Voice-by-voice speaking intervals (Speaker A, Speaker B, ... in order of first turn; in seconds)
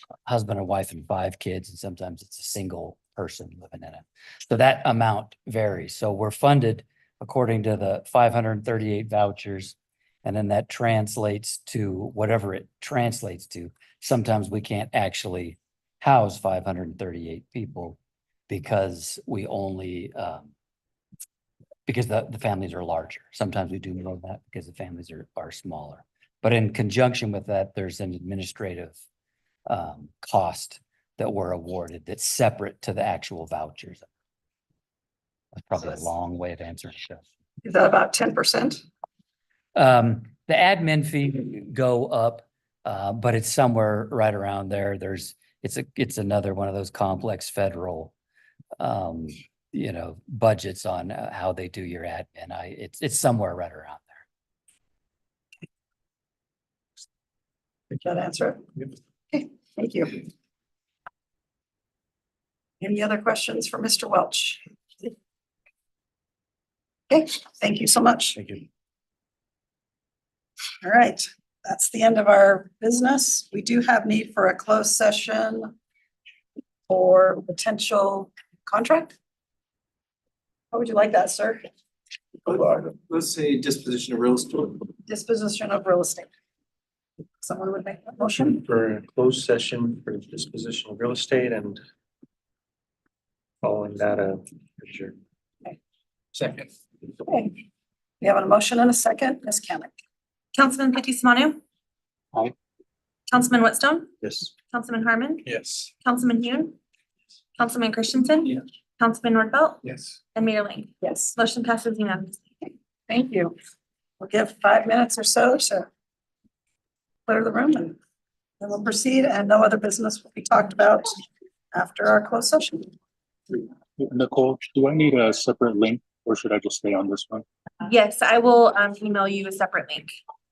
Speaker A: 0.3-18.0, 18.5-20.5, 21.9-29.0, 29.7-34.1, 35.6-37.3, 39.8-48.1, 48.8-54.2
Speaker B: 37.6-38.8, 57.9-60.2, 62.8-65.1, 67.1-68.6, 70.8-75.7, 76.9-79.2, 80.7-81.6, 85.1-86.3, 87.4-88.6, 97.2-97.5, 98.2-99.9, 111.0-111.3, 113.1-113.5, 114.2-115.9, 117.3-118.0, 118.6-121.2, 121.7-122.9
Speaker C: 82.5-84.9
Speaker D: 88.4-91.8, 93.6-95.2, 96.4-96.7
Speaker E: 100.5-101.6, 103.3-104.1, 104.7-105.5, 106.0-106.8, 107.6-109.8, 110.3-112.4, 127.8-130.2
Speaker F: 124.0-127.5